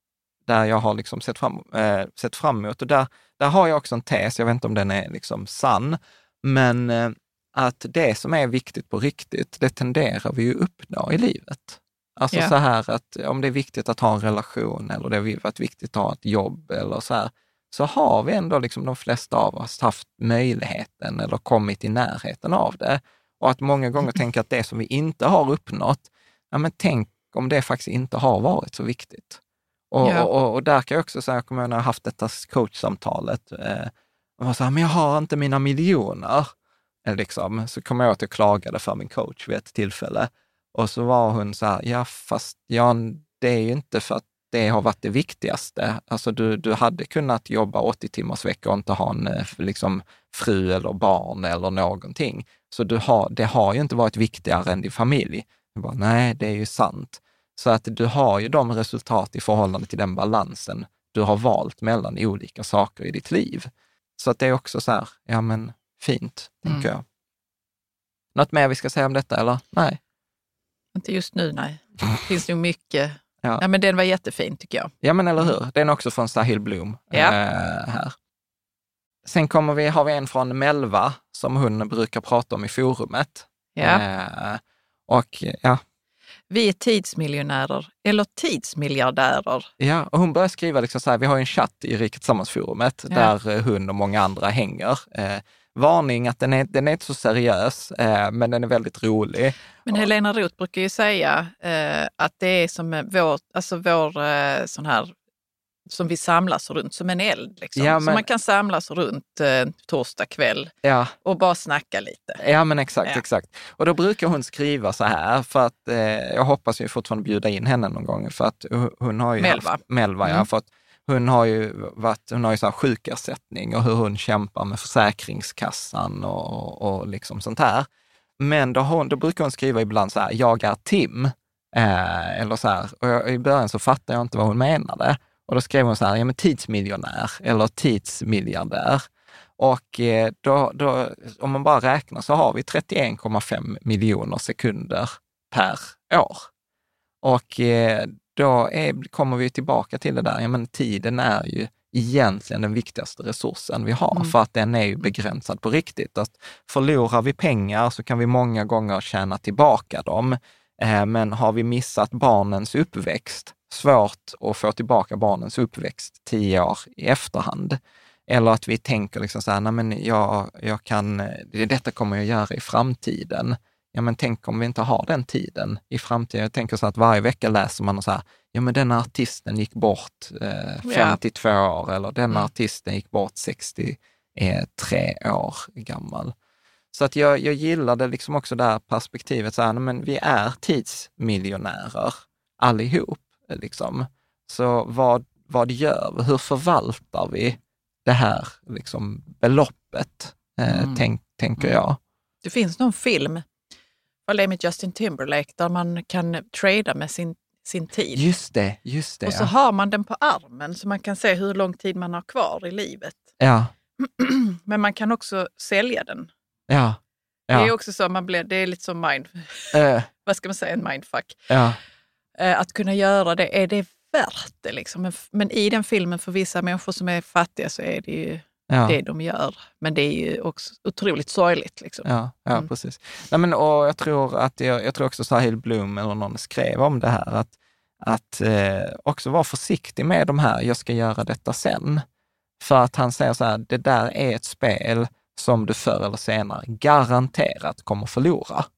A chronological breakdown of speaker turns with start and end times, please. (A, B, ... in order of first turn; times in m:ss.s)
0:00.5-0:29.4 A
0:29.9-0:36.5 A
0:30.0-0:30.3 B
0:37.0-1:07.0 A
1:08.4-1:10.0 A
1:11.0-1:15.6 B
1:15.0-1:18.2 A
1:19.2-1:25.8 A
1:23.8-1:24.0 B
1:26.5-1:29.7 B
1:29.8-1:40.1 A
1:39.9-1:45.1 B
1:45.9-1:50.7 B
1:47.8-1:48.2 A
1:50.8-1:51.2 A
1:51.2-1:52.4 B
1:52.4-2:07.9 A
1:59.4-2:00.5 B
2:08.4-2:19.0 A
2:19.6-2:26.5 A
2:27.2-3:06.3 A
3:00.8-3:01.2 B
3:06.9-3:22.0 A
3:20.7-3:21.0 B
3:22.4-3:23.5 B
3:24.3-3:28.2 B
3:28.1-3:29.5 A
3:29.2-3:33.2 B
3:33.4-3:33.7 A
3:34.0-3:36.3 B
3:36.7-3:37.7 A
3:37.5-3:41.4 B
3:39.7-3:40.1 A
3:41.5-3:41.8 A
3:42.4-3:52.7 B
3:48.7-3:49.0 A
3:52.0-4:02.0 A
4:02.6-4:08.7 A